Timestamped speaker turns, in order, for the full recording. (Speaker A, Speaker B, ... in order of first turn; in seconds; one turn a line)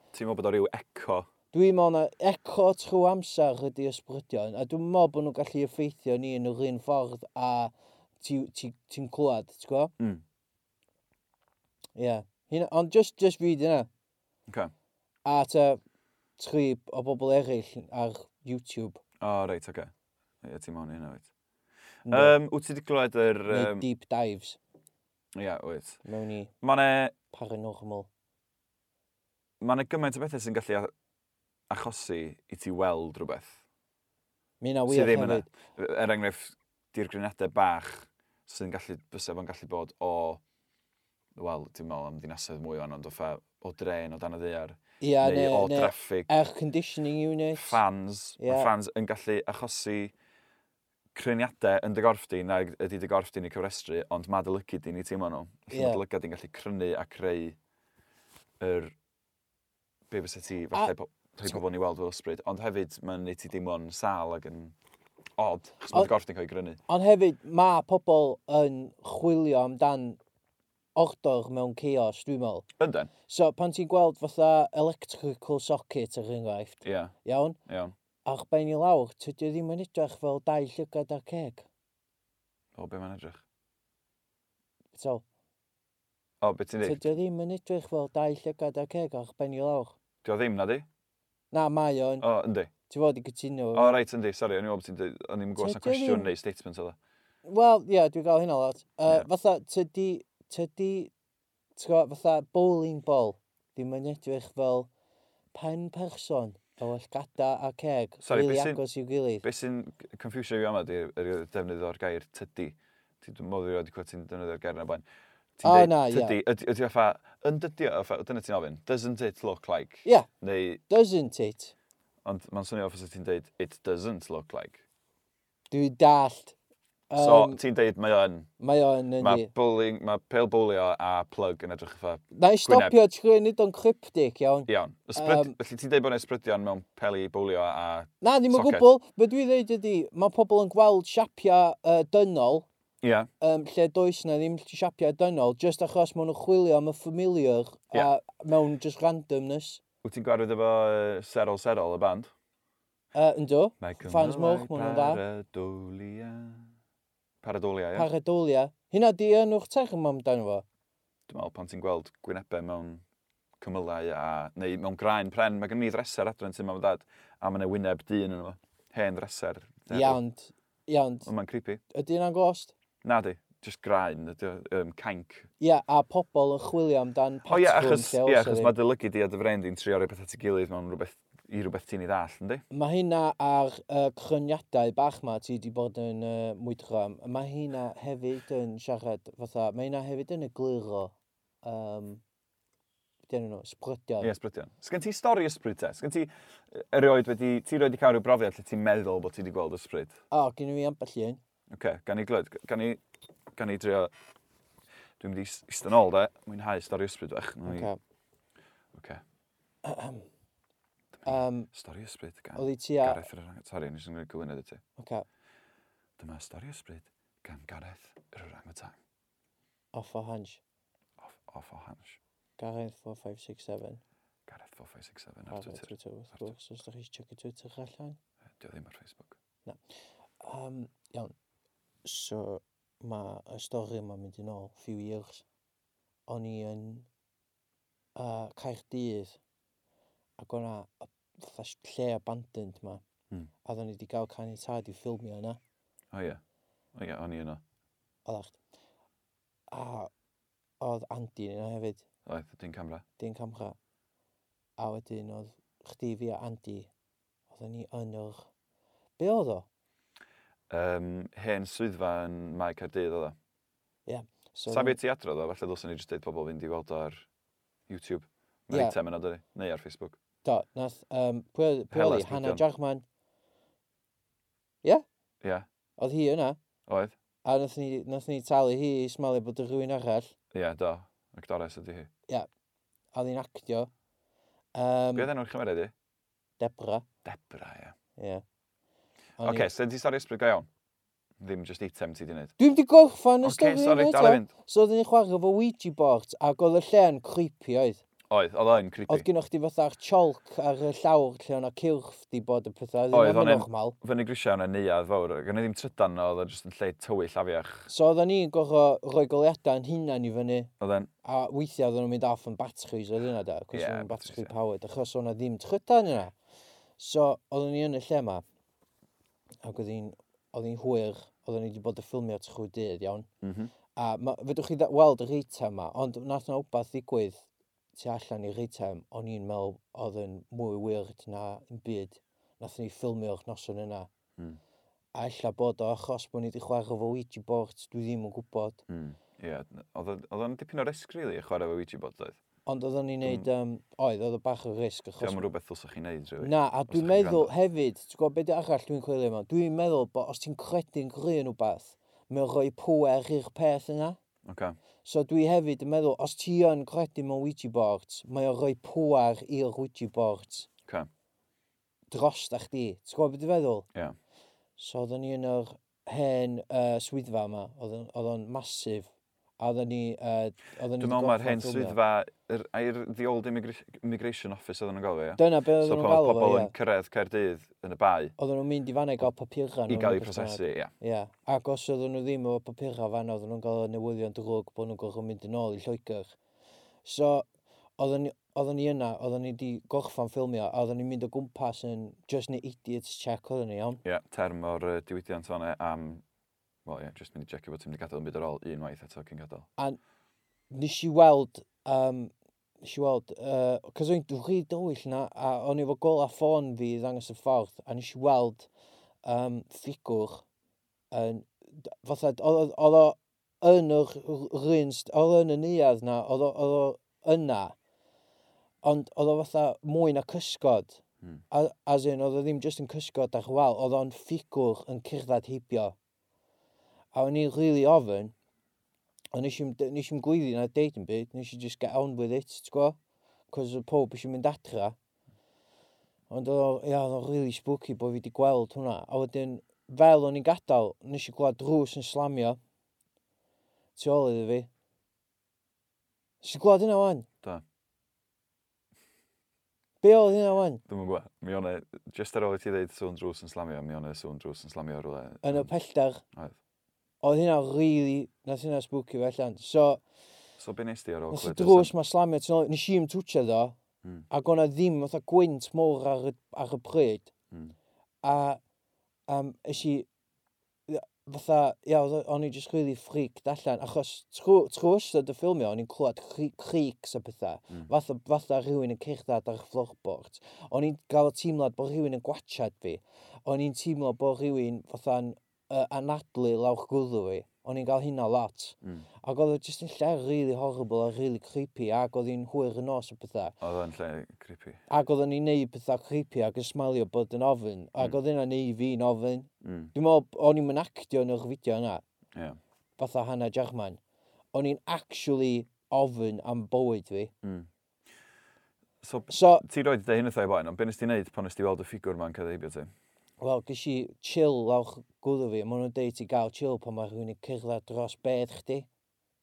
Speaker A: 0.1-1.3
Speaker B: 1.5-9.9
Speaker A: 10.0-10.2
Speaker B: 12.0-13.9
Speaker A: 14.5-14.7
Speaker B: 15.2-15.8
Speaker B: 16.4-19.0
Speaker A: 19.2-19.9
Speaker A: 20.4-21.3
Speaker B: 22.1-22.4
Speaker A: 22.1-23.9
Speaker B: 23.5-24.6
Speaker A: 25.4-26.0
Speaker B: 26.1-26.5
Speaker A: 26.6-27.1
Speaker B: 27.3-28.1
Speaker A: 29.6-30.9
Speaker A: 31.7-33.6
Speaker B: 34.6-35.5
Speaker A: 34.9-40.4
Speaker A: 41.4-46.3
Speaker B: 45.0-47.8
Speaker A: 47.5-50.1
Speaker B: 48.4-48.7
Speaker A: 51.1-57.6
Speaker B: 55.7-56.0
Speaker A: 58.6-59.0
Speaker A: 60.1-64.8
Speaker A: 65.4-66.8
Speaker B: 66.9-70.2
Speaker B: 71.0-72.7
Speaker A: 72.8-73.1
Speaker B: 73.3-77.6
Speaker A: 76.8-77.1
Speaker A: 77.7-77.9
Speaker B: 78.2-81.7
Speaker A: 82.8-83.4
Speaker B: 85.0-85.2
Speaker A: 86.4-87.1
Speaker B: 86.8-90.0
Speaker A: 90.2-90.9
Speaker B: 91.5-92.3
Speaker A: 92.2-92.7
Speaker B: 92.9-94.0
Speaker A: 93.7-97.0
Speaker B: 95.6-96.3
Speaker B: 97.5-101.1
Speaker B: 101.8-104.9
Speaker B: 105.5-109.4
Speaker A: 108.2-108.8
Speaker A: 109.4-115.0
Speaker A: 115.6-120.8
Speaker B: 115.6-116.4
Speaker B: 120.9-121.7
Speaker A: 122.2-124.8
Speaker B: 125.7-126.6
Speaker B: 127.1-127.6
Speaker A: 127.2-128.5
Speaker B: 128.6-129.5
Speaker A: 129.2-132.9
Speaker B: 132.3-135.5
Speaker A: 134.7-138.9
Speaker B: 138.2-142.7
Speaker A: 143.0-143.3
Speaker B: 143.4-149.8
Speaker A: 150.0-152.3
Speaker B: 153.1-155.2
Speaker A: 153.8-156.7
Speaker A: 157.4-158.1
Speaker B: 157.9-160.7
Speaker A: 161.3-163.0
Speaker A: 163.6-170.2
Speaker B: 169.9-171.3
Speaker A: 171.2-171.8
Speaker B: 171.9-172.8
Speaker A: 173.0-175.5
Speaker B: 175.6-178.7
Speaker A: 177.5-182.7
Speaker B: 182.7-192.2
Speaker B: 193.3-194.3
Speaker A: 194.2-200.2
Speaker B: 200.3-201.4
Speaker A: 201.7-203.0
Speaker A: 203.6-204.1
Speaker A: 205.2-207.9
Speaker B: 207.7-208.0
Speaker A: 208.9-209.2
Speaker B: 209.8-210.3
Speaker A: 211.1-214.8
Speaker B: 211.3-211.7
Speaker B: 212.6-213.3
Speaker B: 215.0-215.2
Speaker A: 216.2-219.0
Speaker B: 219.9-220.6
Speaker A: 221.2-222.2
Speaker B: 222.6-224.0
Speaker A: 224.5-226.5
Speaker B: 225.5-228.2
Speaker A: 228.6-229.4
Speaker B: 230.4-231.3
Speaker B: 232.1-235.4
Speaker B: 236.3-237.1
Speaker B: 238.2-239.4
Speaker B: 240.4-243.0
Speaker B: 243.6-245.6
Speaker A: 246.1-246.4
Speaker A: 246.9-247.6
Speaker B: 248.3-248.6
Speaker B: 249.7-250.1
Speaker B: 250.8-252.0
Speaker A: 252.3-253.0
Speaker B: 253.2-253.8
Speaker B: 254.8-256.9
Speaker B: 257.5-258.5
Speaker B: 259.2-259.7
Speaker A: 260.7-263.4
Speaker B: 264.1-265.0
Speaker A: 264.7-267.3
Speaker A: 267.9-270.2
Speaker B: 268.7-268.9
Speaker B: 270.4-273.0
Speaker A: 271.9-272.6
Speaker B: 276.0-276.6
Speaker A: 276.9-277.1
Speaker B: 277.4-280.4
Speaker A: 280.5-282.1
Speaker B: 283.1-283.9
Speaker B: 284.8-285.3
Speaker A: 285.1-285.9
Speaker B: 286.6-287.1
Speaker A: 287.2-287.9
Speaker B: 288.2-288.4
Speaker B: 289.4-289.7
Speaker A: 289.4-290.7
Speaker A: 291.4-292.5
Speaker B: 292.6-298.0
Speaker A: 293.4-294.5
Speaker A: 298.3-299.3
Speaker B: 299.1-304.0
Speaker A: 303.1-307.9
Speaker B: 307.9-310.7
Speaker A: 310.8-311.1
Speaker B: 311.2-316.3
Speaker A: 313.7-314.5
Speaker B: 317.0-318.4
Speaker B: 319.6-323.3
Speaker A: 323.4-323.7
Speaker B: 324.0-334.1
Speaker B: 335.1-338.8
Speaker A: 338.9-342.4
Speaker B: 342.7-345.4
Speaker A: 345.2-347.5
Speaker B: 346.4-354.2
Speaker A: 354.5-354.8
Speaker B: 355.0-360.7
Speaker B: 362.1-363.9
Speaker B: 364.8-372.0
Speaker A: 371.0-378.4
Speaker B: 375.4-376.7
Speaker B: 378.4-386.4
Speaker A: 379.9-380.9
Speaker B: 387.1-387.5
Speaker B: 388.0-394.0
Speaker A: 394.0-396.2
Speaker A: 396.9-399.7
Speaker B: 400.7-408.7
Speaker B: 409.2-410.4
Speaker B: 411.1-417.8
Speaker B: 418.8-425.9
Speaker B: 427.1-428.3
Speaker B: 429.3-433.0
Speaker B: 433.5-435.0
Speaker B: 436.3-442.6
Speaker B: 444.0-444.7
Speaker B: 446.4-447.3
Speaker B: 450.0-450.8
Speaker A: 450.9-455.7
Speaker B: 455.4-456.2
Speaker B: 457.2-460.0
Speaker A: 460.6-461.9
Speaker B: 461.3-463.8
Speaker B: 464.3-467.3
Speaker B: 468.2-468.6
Speaker B: 469.3-470.1
Speaker B: 470.9-493.6
Speaker A: 493.6-494.8
Speaker B: 494.9-502.0
Speaker A: 499.6-499.9
Speaker A: 502.3-502.6
Speaker B: 503.0-504.0
Speaker B: 504.5-507.3
Speaker A: 507.4-507.7
Speaker A: 509.0-512.9
Speaker B: 509.3-509.6
Speaker B: 513.4-518.9